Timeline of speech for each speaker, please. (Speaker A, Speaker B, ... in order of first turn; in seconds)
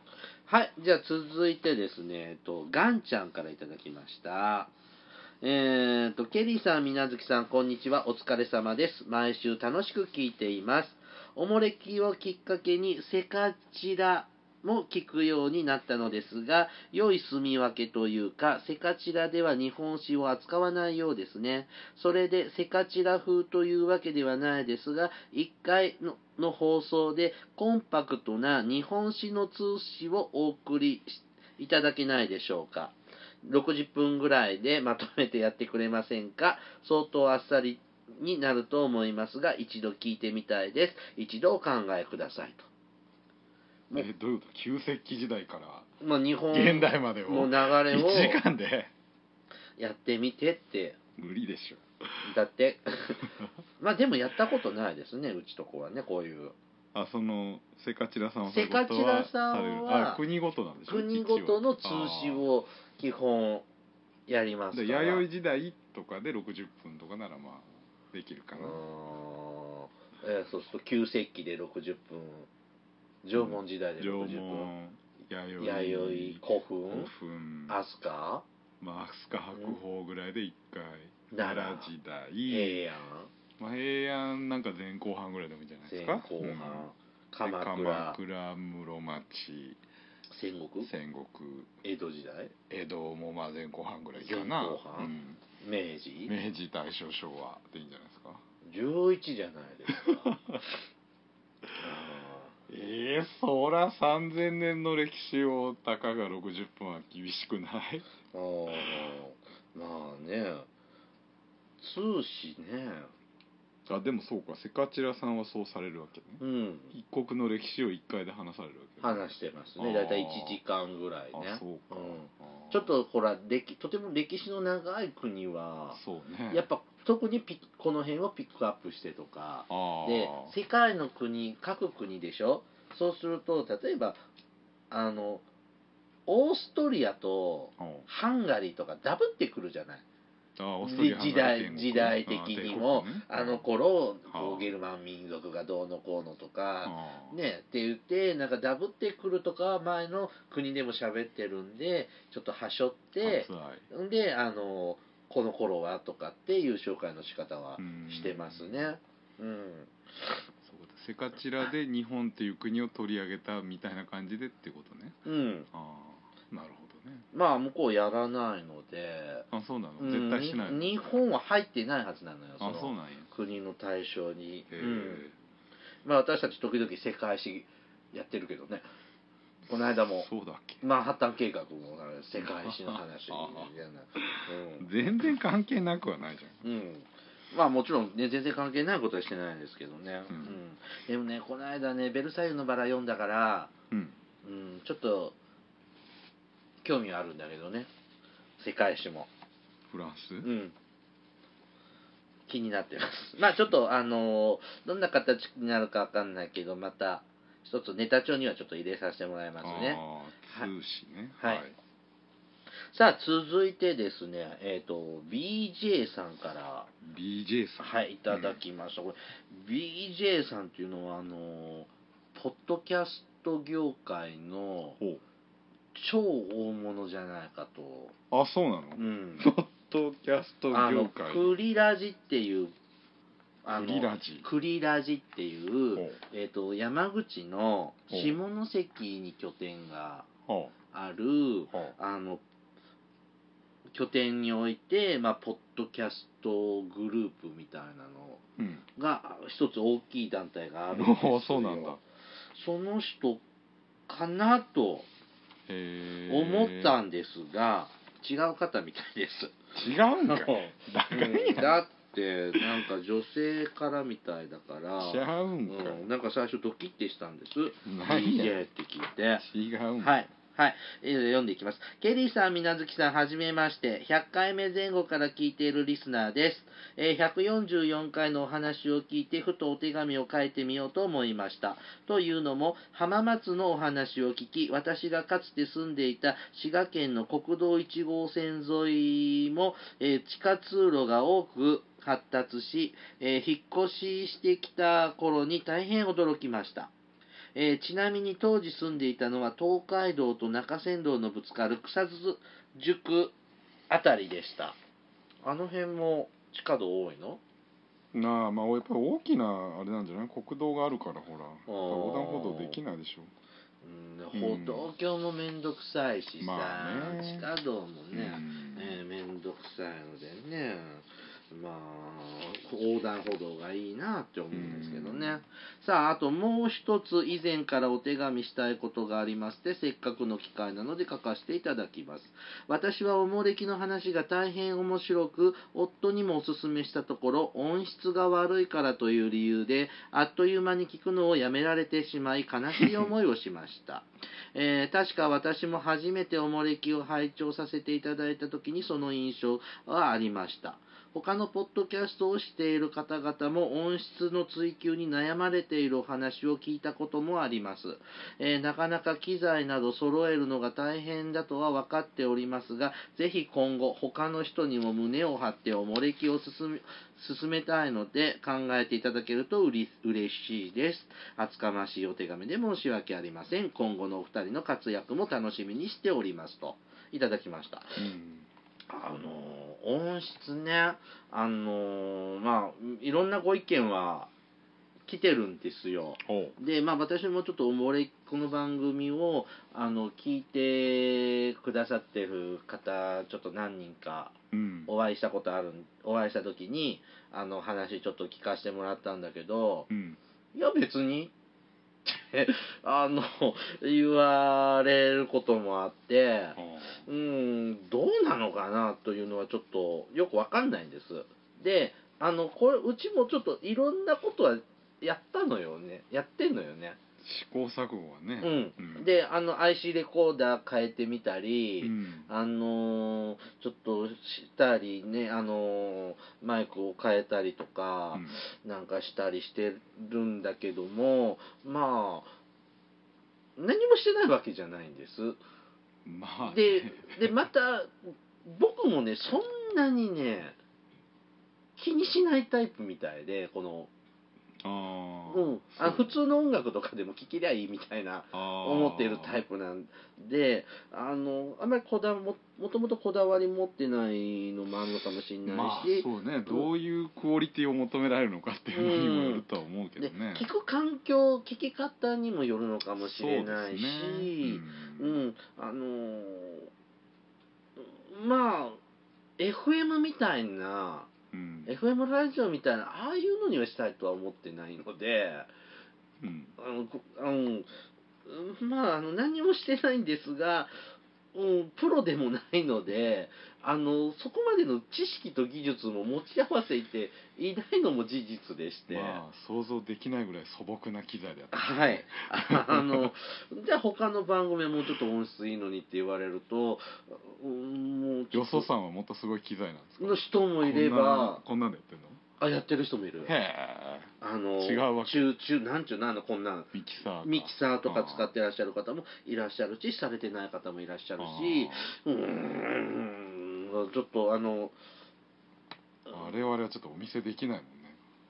Speaker A: 0.5-4.7, 5.4-42.7, 46.0-48.4, 49.8-51.0, 52.2-56.5, 58.5-60.2, 60.9-63.7, 64.3-65.2, 68.5-72.5, 73.2-74.7, 75.6-77.1, 77.7-78.4, 81.3-81.9, 82.5-83.3, 85.9-88.2, 90.3-90.9, 91.8-92.5, 94.2-96.3, 98.6-100.3, 101.8-102.5, 108.3-110.7, 111.8-113.1, 116.4-116.9, 119.0-126.0, 126.5-134.2, 134.9-135.4, 136.3-140.0, 140.8-159.9, 165.2-165.7, 167.3-169.5, 170.0-175.2, 176.0-178.8, 179.7-180.3, 180.8-184.9, 186.6-193.7, 194.4-195.3, 196.8-197.9, 198.6-199.3, 200.4-200.7, 202.5-210.7, 212.9-216.9, 217.8-225.0, 225.9-228.1, 228.9-229.5, 230.7-232.7, 233.6-240.3, 240.9-242.4, 243.9-248.4, 248.9-252.0, 252.5-253.4, 254.1-255.1, 256.3-259.6, 260.2-269.4, 270.0-296.9, 297.5-303.3, 303.9-304.8, 305.4-307.4, 311.7-312.8, 313.8-378.0, 378.9-384.3, 385.1-394.3, 394.9-399.9, 400.5-401.3, 402.0-417.0, 418.4-432.3, 433.6-435.4, 436.5-440.6, 441.8-443.9, 445.3-456.7, 458.7-459.4, 460.0-466.7, 467.8-468.8, 469.4-471.1, 471.7-475.5, 476.6-477.7, 478.2-480.7, 481.3-489.2, 491.5-498.7, 500.0-501.4, 502.4-503.3, 504.2-506.7, 507.2-514.7
Speaker B: 43.9-45.9, 46.5-48.9, 51.2-52.2, 56.9-62.4, 64.7-68.8, 73.3-77.8, 78.8-82.9, 83.6-86.9, 87.4-89.8, 90.8-91.7, 92.7-95.4, 96.3-98.4, 99.9-100.6, 102.7-108.1, 108.7-109.1, 113.8-116.4, 116.9-120.6, 121.3-122.9, 125.9-126.7, 129.7-130.5, 137.8-138.1, 140.6-143.7, 144.3-144.7, 146.8-147.3, 153.2-153.8, 157.8-158.9, 160.6-165.2, 165.7-167.2, 169.5-171.1, 172.6-173.3, 174.7-175.3, 179.7-180.8, 182.4-186.6, 190.3-190.6, 193.9-194.2, 199.9-200.5, 209.6-211.8, 217.0-218.6, 228.3-231.6, 233.7-234.5, 238.1-238.4, 240.5-240.7, 248.6-248.8, 250.9-252.0, 255.7-256.9, 259.7-261.8, 262.5-262.8, 265.0-266.0, 267.8-268.6, 269.4-270.3, 308.1-313.3, 314.3-314.9, 316.4-317.5, 318.1-319.0, 324.5-325.4, 378.0-378.5, 386.2-386.6, 394.5-394.9, 399.9-400.2, 406.6-407.1, 417.2-419.1, 421.8-422.3, 428.1-428.4, 436.0-437.4, 444.6-446.1, 448.3-449.4, 455.4-460.4, 463.0-465.2, 471.3-471.7, 476.2-476.5, 488.9-493.1, 498.3-502.2, 503.2-505.3, 506.7-508.3, 511.2-511.9, 516.1-518.0